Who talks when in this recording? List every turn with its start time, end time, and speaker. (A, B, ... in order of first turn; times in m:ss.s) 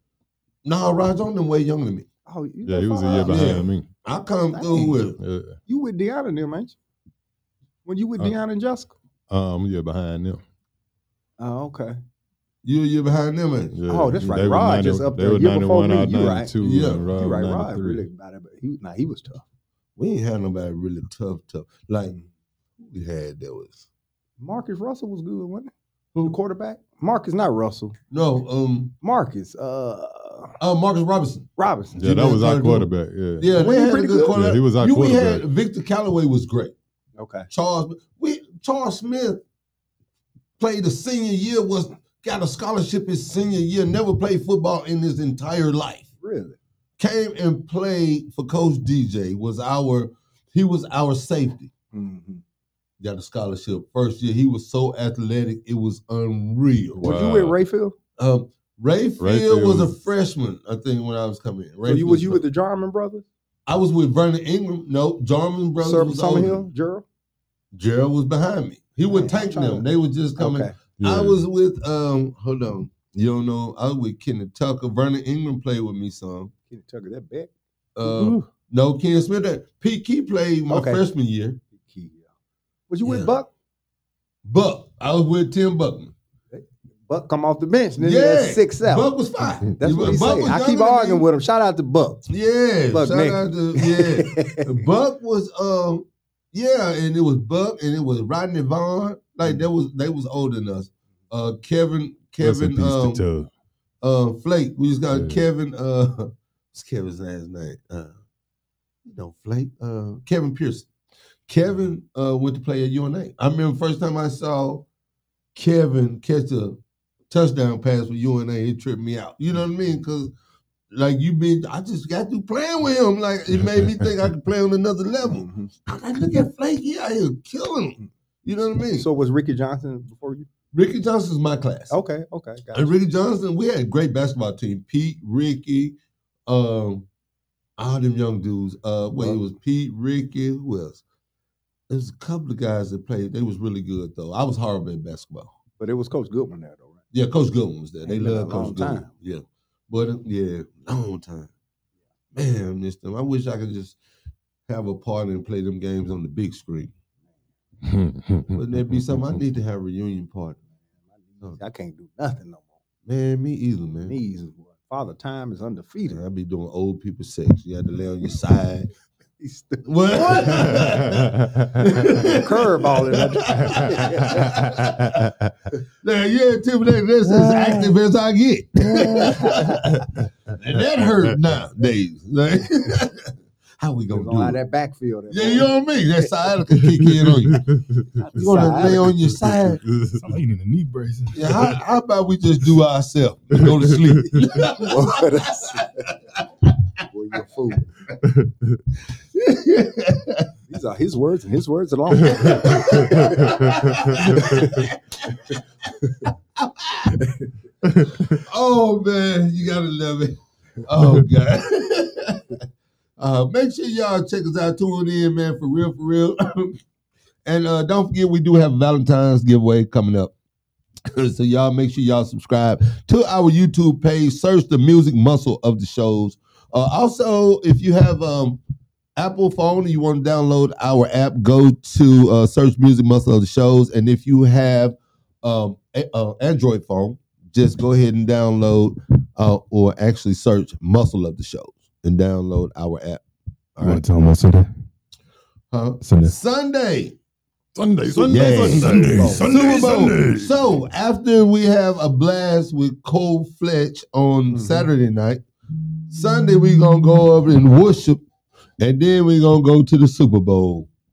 0:00.6-0:02.1 A
0:02.3-0:03.6 B
0:02.7-0:03.9 C
0:03.3-0:05.2 A
0:04.5-0:05.0 B
0:05.2-0:05.6 C
0:05.7-0:06.8 B
0:07.8-0:08.9 B
0:09.3-0:10.4 C
0:11.4-0:12.0 B
0:12.6-0:13.8 A
0:13.8-0:18.1 C
0:13.9-0:19.4 B
0:16.6-0:17.1 A
0:20.0-0:22.2 A
0:22.8-0:23.9 A
0:24.4-0:28.0 B
0:28.1-0:28.9 A
0:29.0-0:30.6 B
0:30.6-0:36.8 A
0:31.6-0:32.2 B
0:32.0-0:33.5 C
0:33.5-0:34.3 B
0:34.3-0:35.4 C
0:37.2-0:37.5 B
0:37.5-0:39.4 A
0:40.6-0:46.1 A
0:46.2-0:46.6 B
0:47.0-0:51.7 A
0:51.9-0:52.4 B
0:53.0-0:57.1 A
0:57.0-0:57.6 C
0:57.0-0:58.0 B
0:58.2-1:02.4 A
0:59.2-0:59.9 C
1:01.8-1:03.3 B
1:03.7-1:06.6 A
1:05.8-1:07.0 B
1:07.7-1:16.5 A
1:09.0-1:10.8 B
1:11.0-1:11.4 C
1:16.7-1:17.5 B
1:18.0-1:21.6 A
1:18.0-1:18.4 B
1:20.7-1:21.0 B
1:21.7-1:22.3 B
1:22.9-1:23.5 B
1:23.0-1:23.3 A
1:24.4-1:26.1 A
1:26.5-1:29.1 B
1:28.0-1:31.3 A
1:29.8-1:32.3 B
1:32.3-1:43.2 A
1:32.9-1:34.8 B
1:42.4-1:43.5 C
1:44.0-1:48.1 A
1:45.1-1:45.4 C
1:49.0-1:50.9 A
1:51.5-1:54.9 A
1:55.6-2:00.3 A
2:00.9-2:09.1 A
2:05.2-2:05.7 B
2:09.0-2:10.5 B
2:10.7-2:12.0 A
2:11.9-2:12.9 B
2:12.7-2:16.0 A
2:16.5-2:17.1 A
2:17.8-2:21.0 A
2:21.9-2:25.5 A
2:25.8-2:27.0 B
2:27.1-2:31.5 A
2:28.0-2:29.1 B
2:32.3-2:34.0 A
2:34.7-2:36.9 A
2:37.9-2:38.6 C
2:38.5-2:40.6 A
2:41.2-2:42.7 B
2:43.1-2:44.2 A
2:44.1-2:46.2 B
2:46.1-2:48.9 A
2:49.4-2:50.8 B
2:49.8-2:55.3 A
2:52.1-2:54.6 B
2:54.6-2:55.3 C
2:56.0-3:04.6 A
2:57.3-2:57.9 C
2:59.2-2:59.8 B
2:59.9-3:00.3 C
3:04.1-3:06.2 B
3:05.3-3:07.7 A
3:06.9-3:08.1 C
3:08.2-3:09.0 B
3:08.3-3:09.8 A
3:08.6-3:10.2 C
3:10.2-3:11.7 D
3:11.3-3:15.8 A
3:13.6-3:14.0 C
3:14.5-3:16.1 B
3:16.4-3:16.7 A
3:17.1-3:17.9 B
3:18.2-3:18.8 C
3:19.3-3:20.5 A
3:20.7-3:23.6 B
3:22.3-3:25.6 A
3:22.4-3:24.6 C
3:24.3-3:24.5 B
3:26.2-3:27.2 A
3:27.9-3:28.4 C
3:28.4-3:32.6 A
3:33.2-3:36.8 A
3:37.4-3:40.3 A
3:41.1-3:48.6 A
3:49.2-4:03.2 A
4:03.8-4:04.0 A
4:03.8-4:04.7 D
4:05.7-4:07.2 A
4:06.0-4:06.4 D
4:07.8-4:10.2 C
4:08.1-4:10.5 D
4:08.2-4:15.4 A
4:09.1-4:09.4 B
4:14.5-4:14.9 B
4:16.1-4:18.2 A
4:18.8-4:20.9 A